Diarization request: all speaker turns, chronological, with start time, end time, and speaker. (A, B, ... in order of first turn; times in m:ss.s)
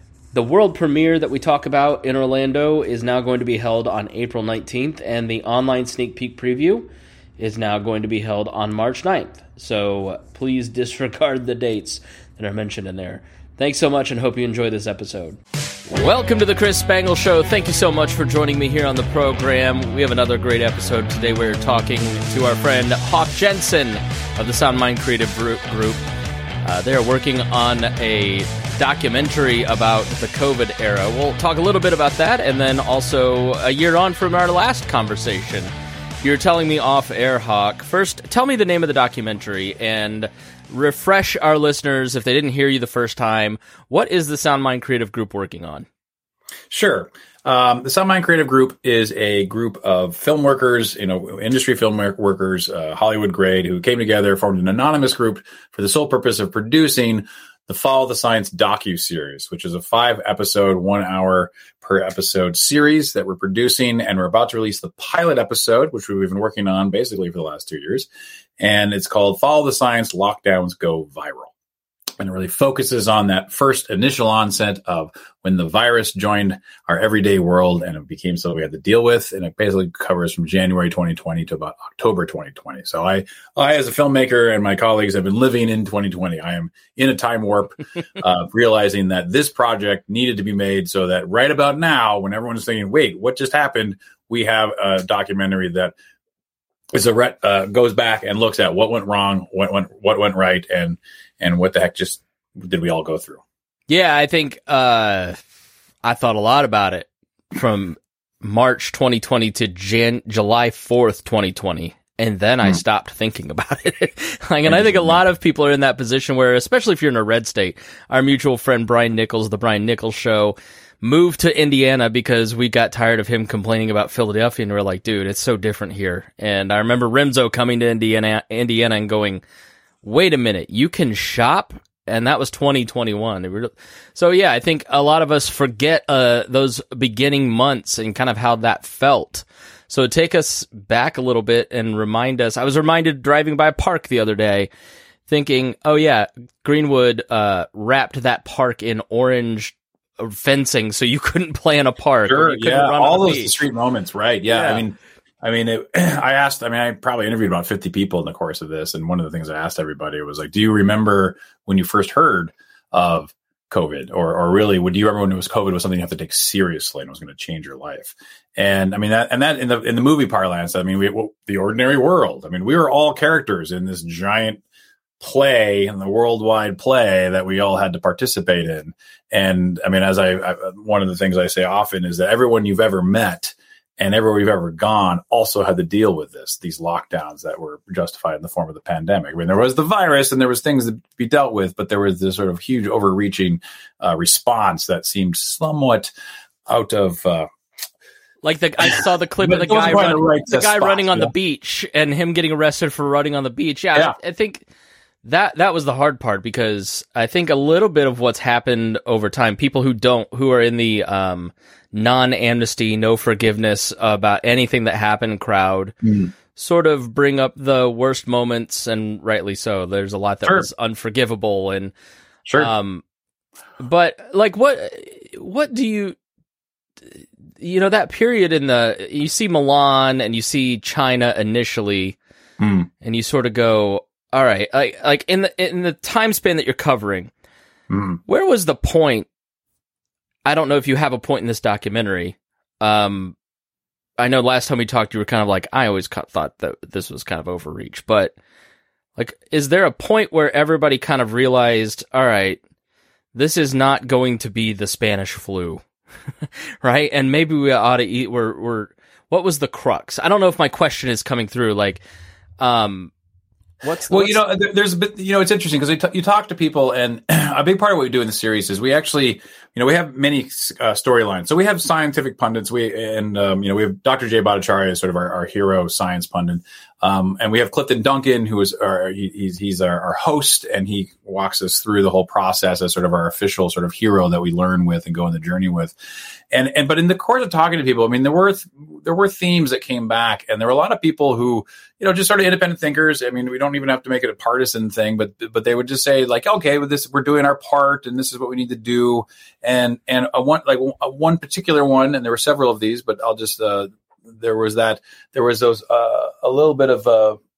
0:00.3-0:15.4 A
0:15.9-0:26.0 A
0:26.6-0:45.9 A
0:46.7-1:08.1 B
1:08.6-1:11.5 B
1:12.2-1:35.9 B
1:36.9-1:43.4 B
1:43.9-1:45.4 A
1:46.0-2:09.4 A
1:54.7-1:55.2 B
2:10.0-2:24.7 A
2:25.3-2:33.6 A
2:32.3-2:54.6 B
2:34.5-2:34.8 A
2:55.2-3:16.1 B
3:16.7-3:17.5 B
3:18.4-3:24.7 A
3:18.8-3:21.3 B
3:25.2-3:36.0 A
3:36.0-3:36.3 B
3:36.6-3:41.9 A
3:42.5-3:42.7 B
3:42.6-3:43.0 A
3:43.8-3:46.2 A
3:47.6-3:52.2 A
3:52.6-3:52.9 B
3:53.0-3:57.3 A
3:57.9-3:58.2 B
3:58.3-3:59.3 A
4:00.5-4:03.4 A
4:04.2-4:08.3 A
4:09.2-4:12.6 A
4:13.3-4:15.8 A
4:16.8-4:22.0 A
4:22.6-4:23.1 A
4:23.8-4:24.4 A
4:24.1-4:45.9 B
4:46.5-5:07.4 B